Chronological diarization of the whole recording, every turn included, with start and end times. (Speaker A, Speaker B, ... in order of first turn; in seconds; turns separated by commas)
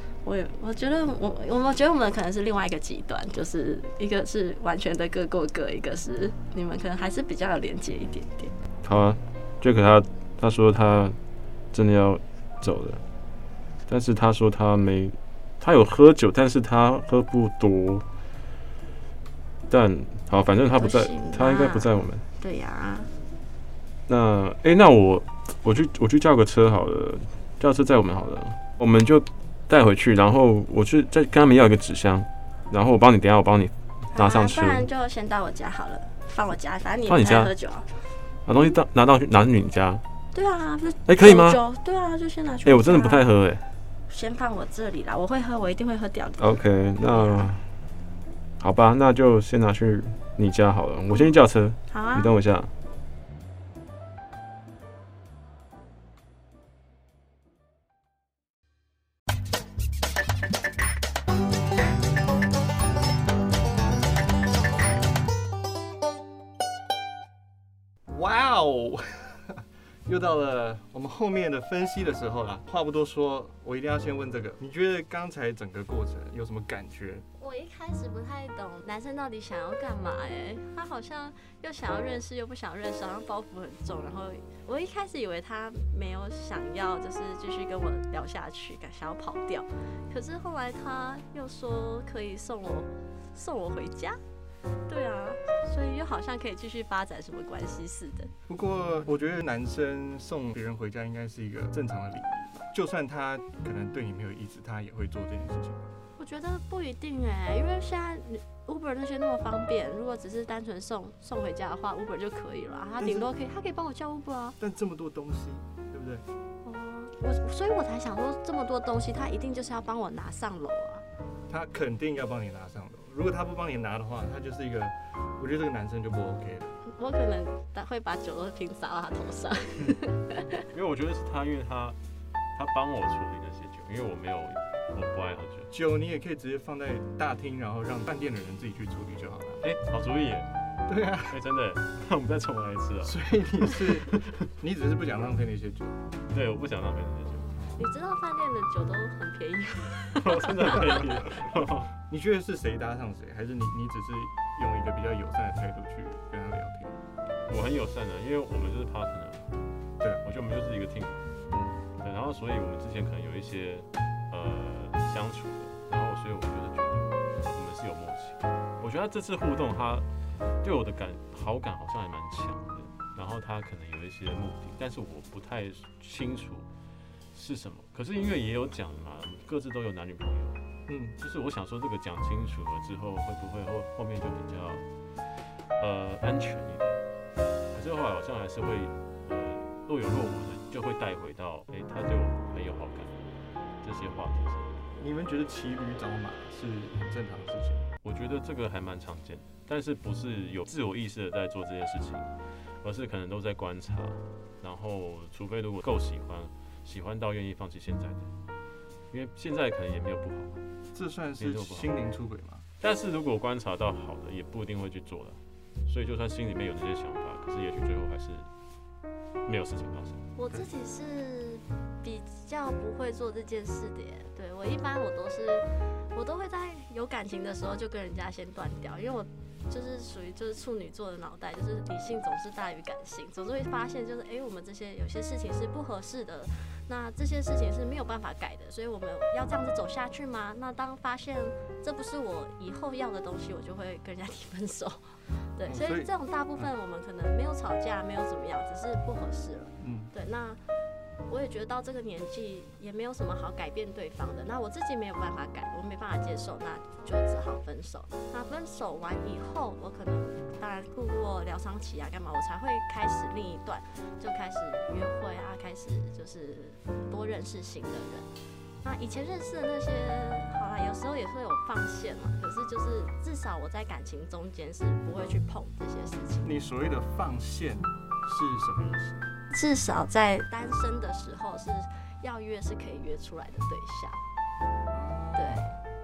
Speaker A: 0.2-8.5, Speaker B: 8.8-11.2, Speaker B: 11.7-13.0, Speaker B: 13.9-18.0, Speaker B: 19.7-22.2, Speaker A: 20.8-23.1, Speaker B: 24.1-34.9, Speaker A: 34.1-37.9, Speaker B: 37.0-37.5, Speaker B: 38.5-40.0, Speaker A: 40.3-43.2, Speaker B: 41.0-41.6, Speaker B: 42.6-43.6, Speaker A: 44.1-46.6, Speaker B: 46.4-47.6, Speaker A: 47.1-47.5, Speaker B: 48.6-52.7, Speaker A: 51.9-52.3, Speaker C: 68.1-77.2, Speaker A: 77.4-94.2, Speaker A: 94.9-98.3, Speaker C: 98.5-105.9, Speaker A: 106.2-114.6, Speaker C: 113.0-113.3, Speaker C: 114.6-116.2, Speaker A: 116.6-121.0, Speaker C: 121.5-126.8, Speaker A: 126.9-130.6, Speaker B: 130.7-132.0, Speaker B: 132.5-135.7, Speaker C: 135.7-139.6, Speaker B: 139.6-140.5, Speaker C: 140.9-141.4, Speaker B: 141.3-143.3, Speaker C: 143.0-146.0, Speaker B: 146.3-147.5, Speaker A: 147.4-151.0, Speaker C: 147.6-147.8, Speaker B: 150.1-151.9, Speaker C: 152.1-157.0, Speaker B: 157.5-159.4, Speaker B: 160.2-161.2, Speaker C: 161.5-161.8, Speaker B: 162.0-170.1, Speaker B: 170.6-176.7, Speaker B: 177.3-180.6, Speaker C: 180.9-181.2, Speaker B: 181.2-184.8, Speaker B: 185.8-187.0, Speaker B: 187.7-194.8, Speaker C: 194.9-197.9, Speaker B: 198.0-202.3, Speaker B: 202.8-208.3, Speaker B: 209.1-210.6, Speaker C: 210.9-212.6, Speaker B: 211.4-211.9, Speaker B: 212.8-218.5, Speaker B: 219.4-220.2, Speaker A: 220.3-250.6, Speaker C: 245.6-246.7, Speaker C: 249.8-250.1, Speaker A: 251.3-268.3, Speaker A: 268.8-276.5, Speaker C: 276.4-279.3, Speaker A: 279.5-284.2, Speaker C: 284.9-285.8, Speaker A: 285.4-285.7